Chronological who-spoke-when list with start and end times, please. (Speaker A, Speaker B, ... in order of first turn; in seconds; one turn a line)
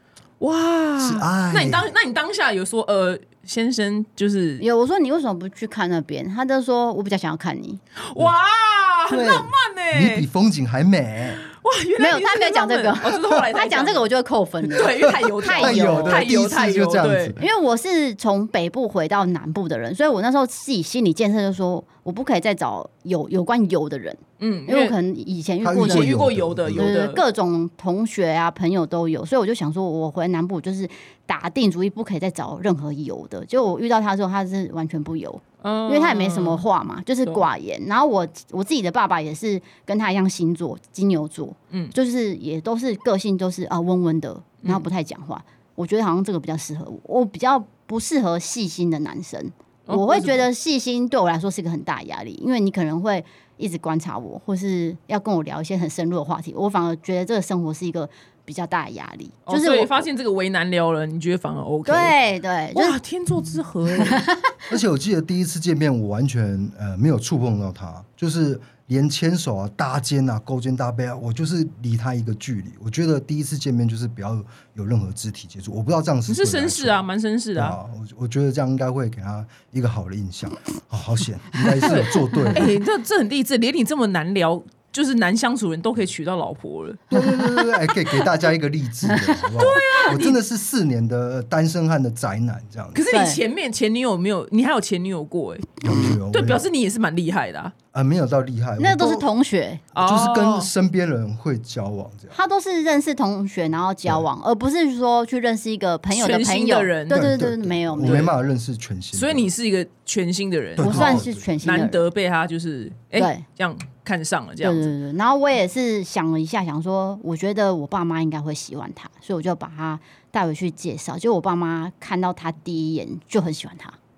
Speaker A: 0.4-4.7
Speaker B: 1.0-1.9
Speaker C: 4.6-7.8
Speaker A: 8.0-10.3
Speaker B: 9.1-11.4
Speaker A: 11.5-14.1
Speaker C: 12.0-16.3
Speaker A: 14.7-17.4
Speaker B: 15.1-17.4
Speaker C: 17.4-26.2
Speaker A: 24.4-24.9
Speaker B: 25.6-26.9
Speaker A: 25.8-27.2
Speaker C: 26.8-60.0
Speaker A: 35.6-36.6
Speaker A: 49.9-50.5
Speaker A: 59.5-62.1
Speaker C: 61.9-63.0
Speaker A: 62.7-64.3
Speaker C: 64.0-64.5
Speaker B: 64.7-82.8
Speaker A: 76.3-77.8
Speaker A: 81.8-87.0
Speaker B: 87.1-93.0
Speaker C: 87.1-87.5
Speaker C: 89.1-89.5
Speaker A: 89.6-90.4
Speaker A: 93.0-97.7
Speaker C: 93.1-93.4
Speaker B: 95.8-96.6
Speaker B: 97.9-99.2
Speaker C: 98.8-99.8
Speaker A: 100.0-100.7
Speaker B: 100.0-102.3
Speaker C: 102.3-108.3
Speaker A: 106.1-107.3
Speaker B: 107.1-109.5
Speaker A: 108.0-108.3
Speaker A: 109.1-114.9
Speaker B: 110.8-111.5
Speaker C: 110.8-112.1
Speaker C: 113.2-113.4
Speaker C: 114.6-124.0